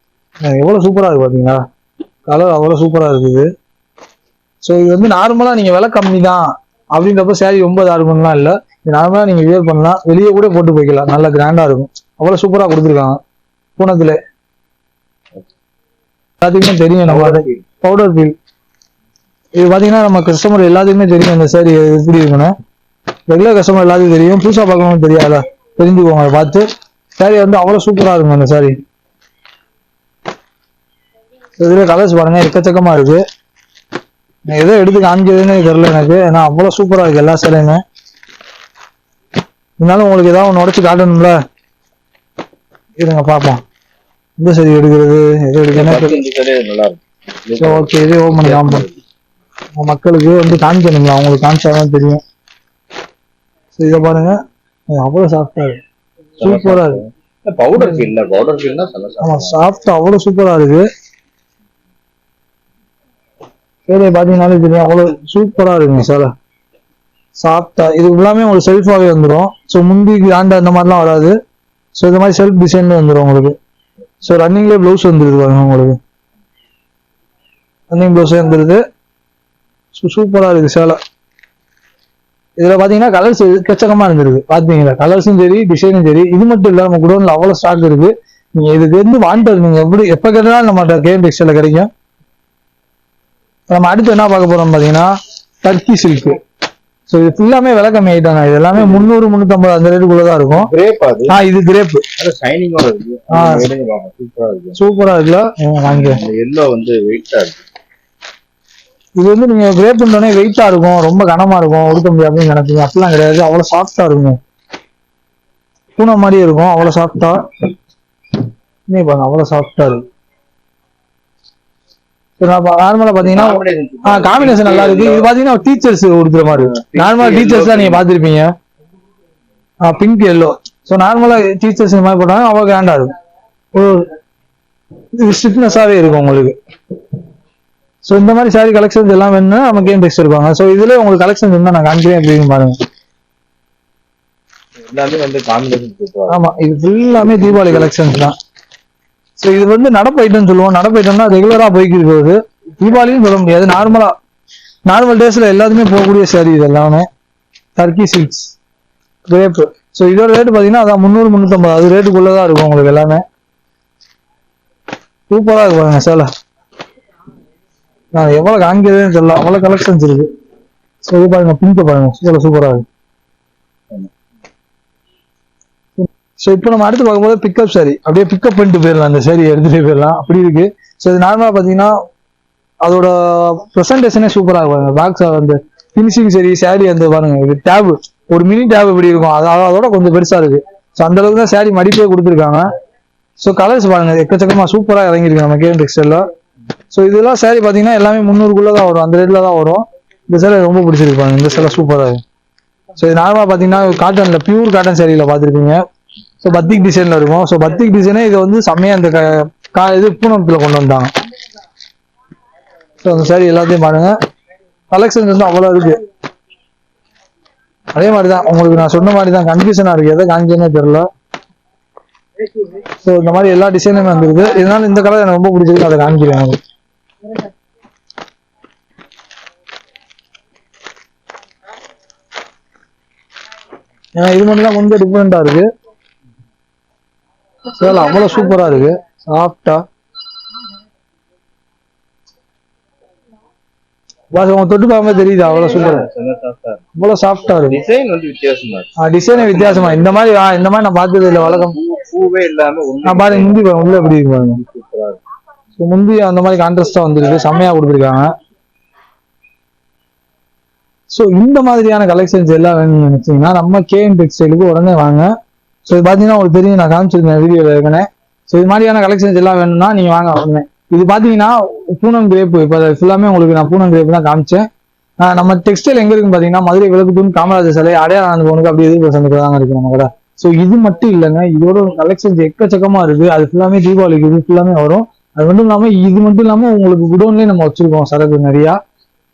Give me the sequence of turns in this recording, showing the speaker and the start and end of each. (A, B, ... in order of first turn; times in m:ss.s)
0:00.4-0:01.6 A
0:02.3-0:03.5 A
0:04.6-0:13.2 A
0:13.8-0:14.2 A
0:16.4-0:18.3 A
0:17.0-0:17.6 B
0:19.6-0:22.5 A
0:23.3-0:26.6 A
0:27.2-0:28.7 A
0:31.6-0:33.2 A
0:34.5-0:37.8 A
0:39.8-0:41.3 A
0:43.0-0:43.6 A
0:44.4-0:46.2 A
0:45.7-0:49.0 B
0:47.6-0:48.8 A
0:49.8-0:52.2 A
0:53.8-0:54.4 A
0:54.9-0:55.8 A
0:56.4-0:59.6 B
0:56.4-0:57.0 A
0:57.8-0:58.0 A
0:59.2-1:00.8 A
1:03.9-1:06.3 A
1:07.4-1:11.3 A
1:12.0-1:13.5 A
1:14.2-1:16.0 A
1:17.9-1:18.8 A
1:20.0-1:21.0 A
1:22.6-1:31.9 A
1:33.7-1:35.1 A
1:35.6-1:36.4 A
1:37.1-1:40.7 A
1:40.5-1:41.4 B
1:41.3-1:42.0 A
1:42.2-1:44.8 B
1:43.3-1:43.6 A
1:44.8-1:46.2 A
1:45.9-1:47.6 B
1:49.2-1:54.4 A
1:56.0-1:57.4 A
1:58.9-2:00.0 A
2:02.4-2:08.5 A
2:03.2-2:05.3 B
2:06.5-2:08.0 B
2:09.8-2:13.1 A
2:13.7-2:14.1 A
2:15.1-2:16.5 A
2:18.0-2:22.8 A
2:24.8-2:26.6 B
2:26.3-2:28.3 A
2:29.4-2:34.1 A
2:34.9-2:37.0 A
2:37.8-2:38.5 A
2:39.3-2:43.2 A
2:45.3-2:46.3 A
2:48.1-2:50.3 A
2:51.1-2:52.8 A
2:56.0-3:01.9 A
3:02.8-3:12.6 A
3:13.4-3:16.2 A
3:16.9-3:22.2 A
3:23.0-3:25.8 A
3:26.4-3:31.1 A
3:33.0-3:34.1 A
3:34.9-3:36.0 A
3:37.9-3:41.0 A
3:43.0-3:46.6 A
3:54.2-3:55.7 A
3:57.7-3:59.8 A
4:04.3-4:06.1 A
4:05.6-4:06.8 B
4:07.0-4:07.8 A
4:07.4-4:10.2 B
4:09.0-4:11.7 A
4:11.3-4:15.2 B
4:13.0-4:14.6 A
4:15.8-4:18.3 A
4:21.1-4:25.3 A
4:25.9-4:34.6 A
4:35.2-4:48.8 A